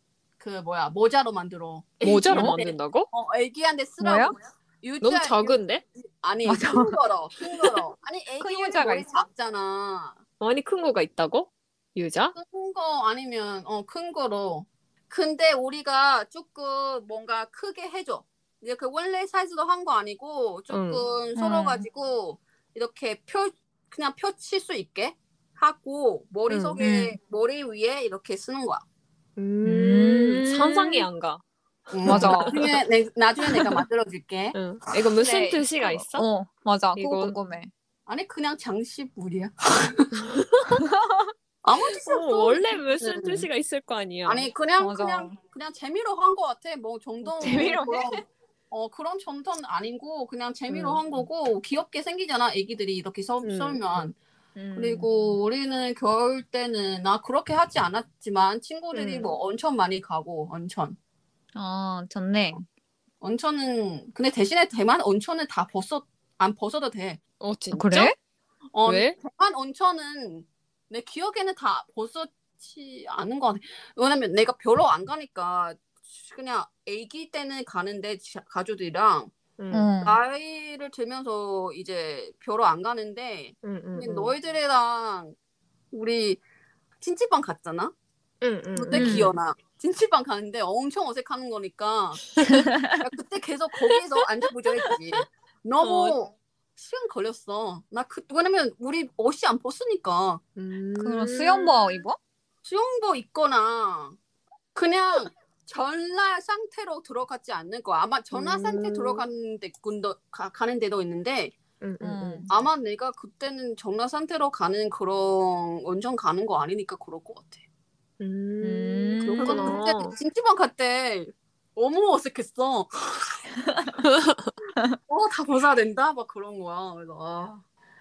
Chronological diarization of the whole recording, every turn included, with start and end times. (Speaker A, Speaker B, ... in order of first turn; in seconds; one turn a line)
Speaker A: 0.4-10.2
Speaker B: 2.0-3.1
Speaker C: 4.0-4.3
Speaker B: 5.0-5.8
Speaker C: 6.4-7.8
Speaker C: 8.4-9.2
Speaker B: 10.4-12.3
Speaker A: 12.3-28.8
Speaker B: 20.7-21.0
Speaker C: 21.3-21.9
Speaker B: 26.5-26.8
Speaker C: 26.8-27.2
Speaker B: 29.4-31.4
Speaker C: 29.6-31.1
Speaker A: 31.9-34.6
Speaker B: 32.0-32.8
Speaker C: 32.0-32.6
Speaker B: 34.5-36.3
Speaker C: 35.2-37.7
Speaker B: 37.0-37.4
Speaker A: 38.1-40.2
Speaker B: 40.2-40.8
Speaker C: 40.8-41.3
Speaker A: 41.6-43.5
Speaker B: 42.0-44.5
Speaker A: 44.2-54.1
Speaker C: 44.8-45.4
Speaker C: 47.2-48.2
Speaker B: 50.7-51.0
Speaker B: 53.4-53.9
Speaker C: 54.5-55.4
Speaker A: 54.7-61.0
Speaker B: 58.9-59.4
Speaker C: 61.5-62.6
Speaker A: 63.2-67.2
Speaker B: 67.4-68.1
Speaker C: 67.7-68.1
Speaker A: 68.7-79.3
Speaker B: 68.8-69.2
Speaker B: 79.6-79.9
Speaker C: 79.7-80.2
Speaker A: 80.0-85.3
Speaker B: 83.6-84.3
Speaker A: 85.9-86.4
Speaker A: 87.0-87.9
Speaker B: 88.4-89.3
Speaker A: 88.7-92.2
Speaker C: 88.9-89.3
Speaker B: 92.3-92.7
Speaker C: 92.4-93.0
Speaker A: 93.0-100.4
Speaker B: 94.9-95.2
Speaker B: 95.8-96.2
Speaker B: 100.5-102.0
Speaker C: 101.0-102.2
Speaker A: 102.6-104.2
Speaker A: 104.7-111.5
Speaker B: 108.3-109.2
Speaker B: 111.8-112.5
Speaker C: 112.0-112.5
Speaker A: 112.5-117.6
Speaker B: 118.2-120.2
Speaker C: 118.6-119.8
Speaker A: 119.4-123.2
Speaker B: 124.0-124.5
Speaker A: 125.1-127.6